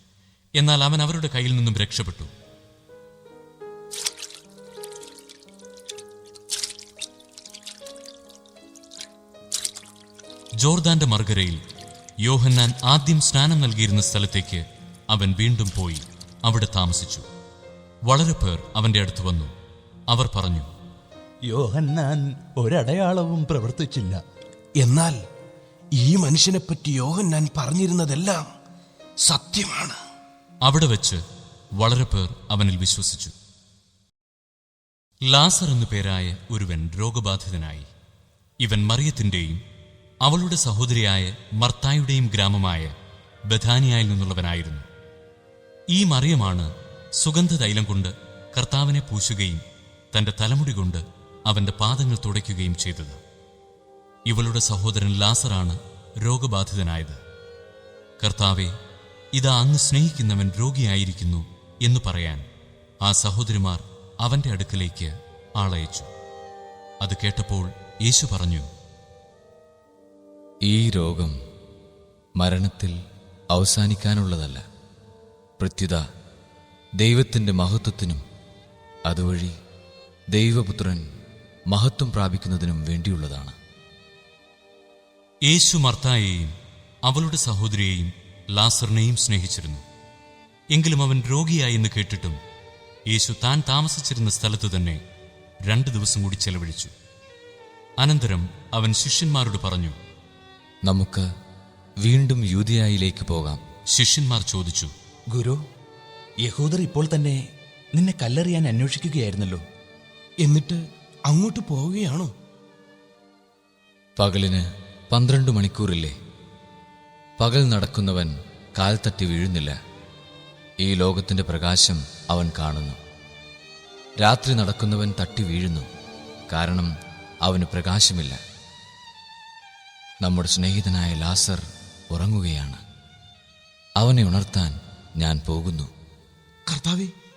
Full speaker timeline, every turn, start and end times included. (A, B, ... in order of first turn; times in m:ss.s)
0:00.6-0:02.3 A
0:10.6-0:11.6 A
0:12.2-0:17.2 A
0:18.1-0:19.5 A
0:20.1-0:20.7 A
0:21.5-0:24.2 B
0:24.8-0:25.2 C
0:26.0-0:28.5 C
0:29.3-0:30.0 C
0:30.7-0:31.2 A
0:31.8-0:33.3 A
0:35.3-0:37.9 A
0:38.6-0:39.6 A
0:40.2-0:42.9 A
0:43.5-0:44.9 A
0:45.9-0:49.6 A
0:50.1-0:53.2 A
0:54.3-0:57.2 A
0:58.2-0:58.7 A
0:59.4-1:02.5 A
1:03.0-1:06.1 A
1:07.0-1:08.7 A
1:10.6-1:11.4 D
1:12.4-1:13.0 D
1:13.5-1:14.6 D
1:15.6-1:16.0 D
1:17.0-1:18.2 D
1:19.1-1:19.6 D
1:20.3-1:21.1 D
1:21.7-1:23.6 D
1:25.5-1:26.5 A
1:27.1-1:29.8 A
1:30.7-1:32.4 A
1:33.1-1:35.0 A
1:35.7-1:36.9 A
1:38.0-1:40.0 A
1:40.9-1:41.3 D
1:42.0-1:43.6 D
1:43.9-1:44.9 A
1:45.3-1:45.6 B
1:46.4-1:47.4 B
1:48.0-1:49.6 B
1:50.4-1:52.3 C
1:54.2-1:56.2 D
1:57.4-1:59.8 D
2:00.8-2:03.0 D
2:04.2-2:05.9 D
2:06.5-2:06.9 D
2:07.4-2:08.4 D
2:10.2-2:12.8 D
2:14.0-2:15.9 D
2:16.7-2:17.1 C